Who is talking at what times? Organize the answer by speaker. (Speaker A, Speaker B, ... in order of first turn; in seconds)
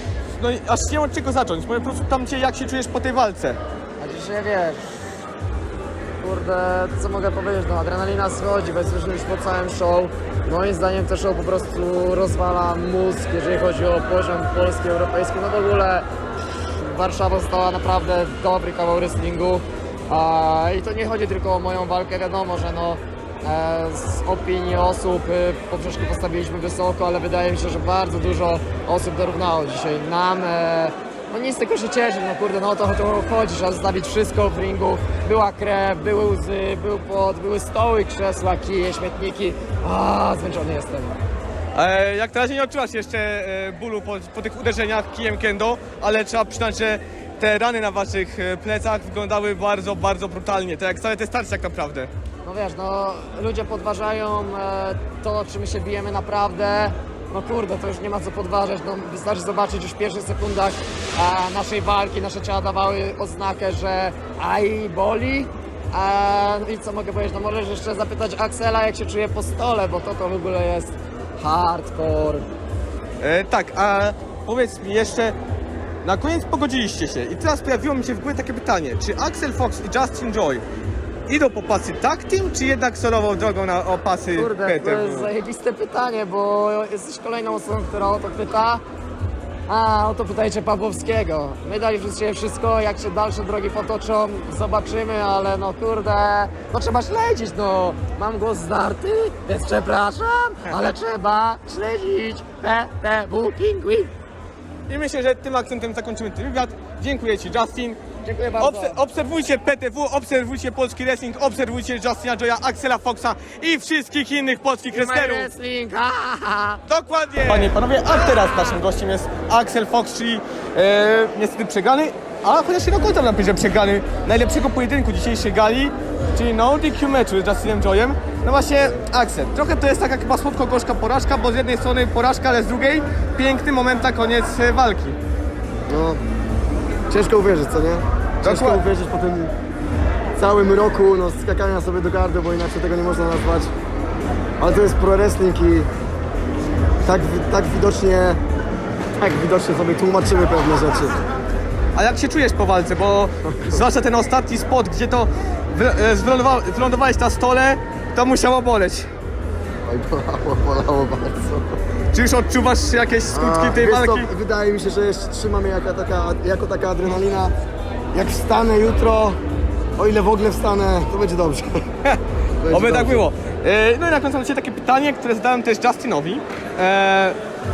Speaker A: 0.3-3.6, 41.8-52.1, 73.2-75.4, 76.0-80.6, 81.3-85.3, 104.9-108.0, 108.6-115.5, 116.9-135.2, 138.4-138.8, 151.9-159.1, 162.1-164.3, 172.7-177.4
Speaker B: 4.0-4.8, 6.2-16.1, 16.8-41.2, 52.5-72.5, 84.3-88.8, 89.7-104.1, 108.2-109.0, 114.9-116.8
Speaker C: 135.9-136.2, 137.1-139.5, 140.4-143.7, 144.6-145.9, 147.0-148.4, 149.2-151.2, 159.8-161.7, 163.3-167.5, 168.1-169.4, 170.0-171.9, 172.6-173.3